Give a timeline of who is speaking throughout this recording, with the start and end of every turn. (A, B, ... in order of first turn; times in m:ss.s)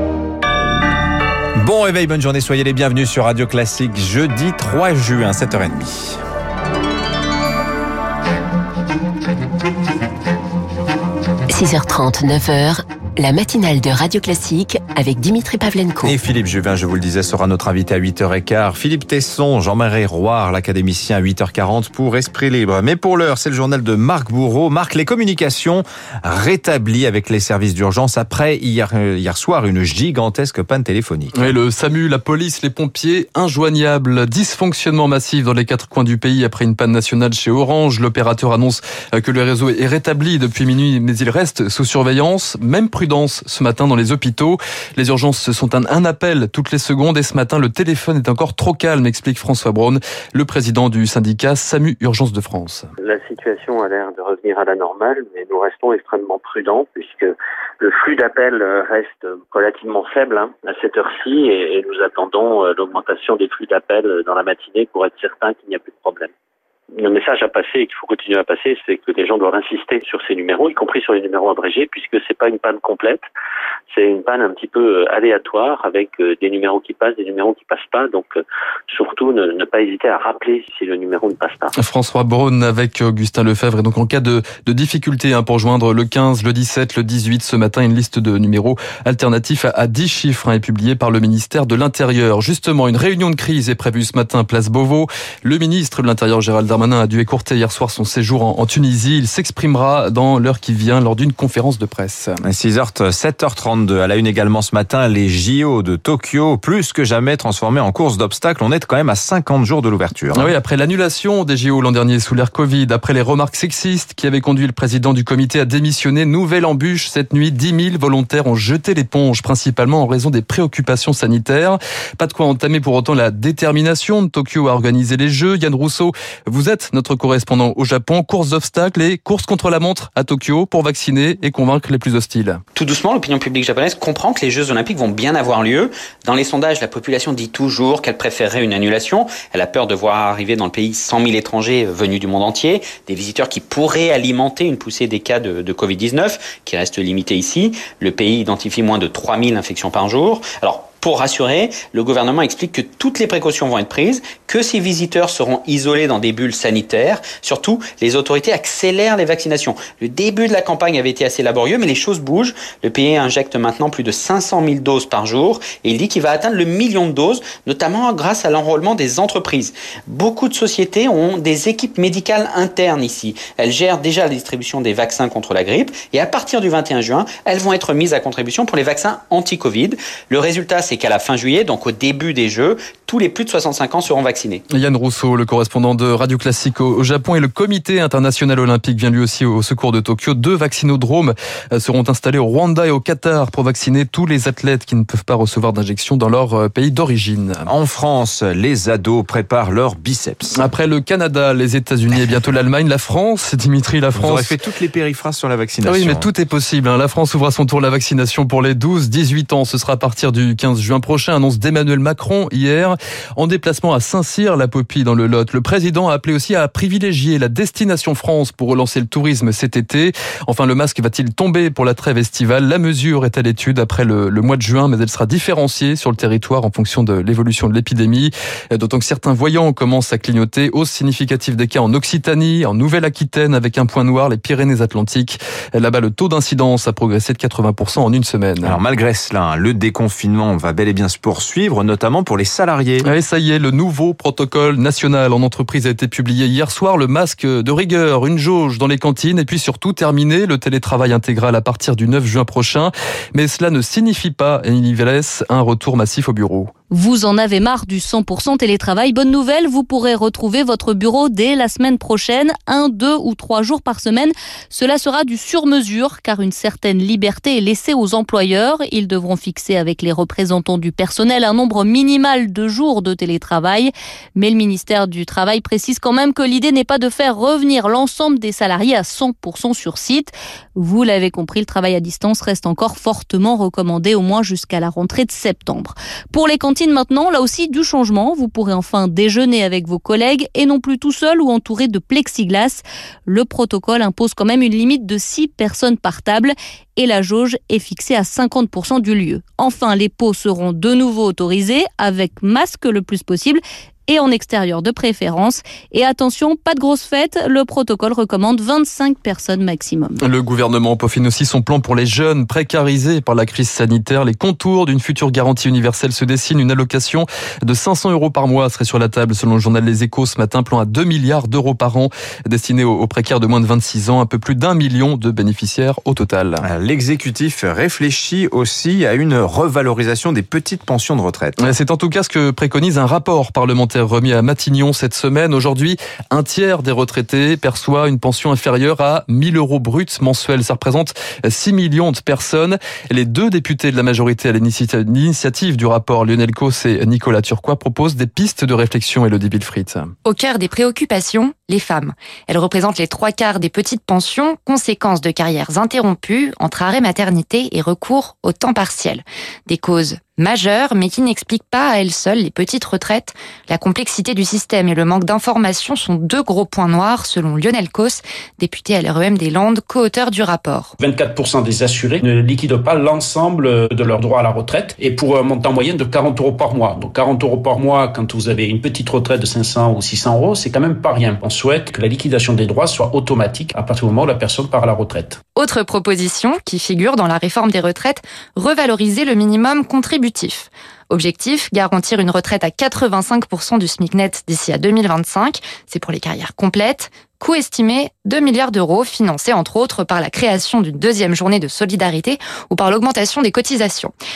0:01.6-0:06.2 A
0:11.5-0:16.1 B
0:16.0-0:31.5 A
0:31.3-0:52.9 C
0:53.1-0:57.3 D
0:57.8-1:06.2 D
1:07.1-1:13.2 D
1:14.0-1:18.3 D
1:18.9-1:21.7 D
1:21.8-1:42.4 C
1:42.4-1:50.5 A
1:50.3-2:12.6 C
2:12.8-3:04.6 E
3:04.7-3:17.7 C
3:17.7-3:20.6 A
3:20.6-3:24.5 C
3:24.2-3:26.3 A
3:25.8-3:58.8 C
3:58.6-4:03.1 A
4:03.0-4:16.7 C
4:16.9-5:10.2 F
5:10.2-5:26.6 C
5:26.6-5:31.7 A
5:31.6-5:50.1 C
5:50.2-6:10.9 G
6:11.0-6:25.4 H
6:25.6-6:44.1 G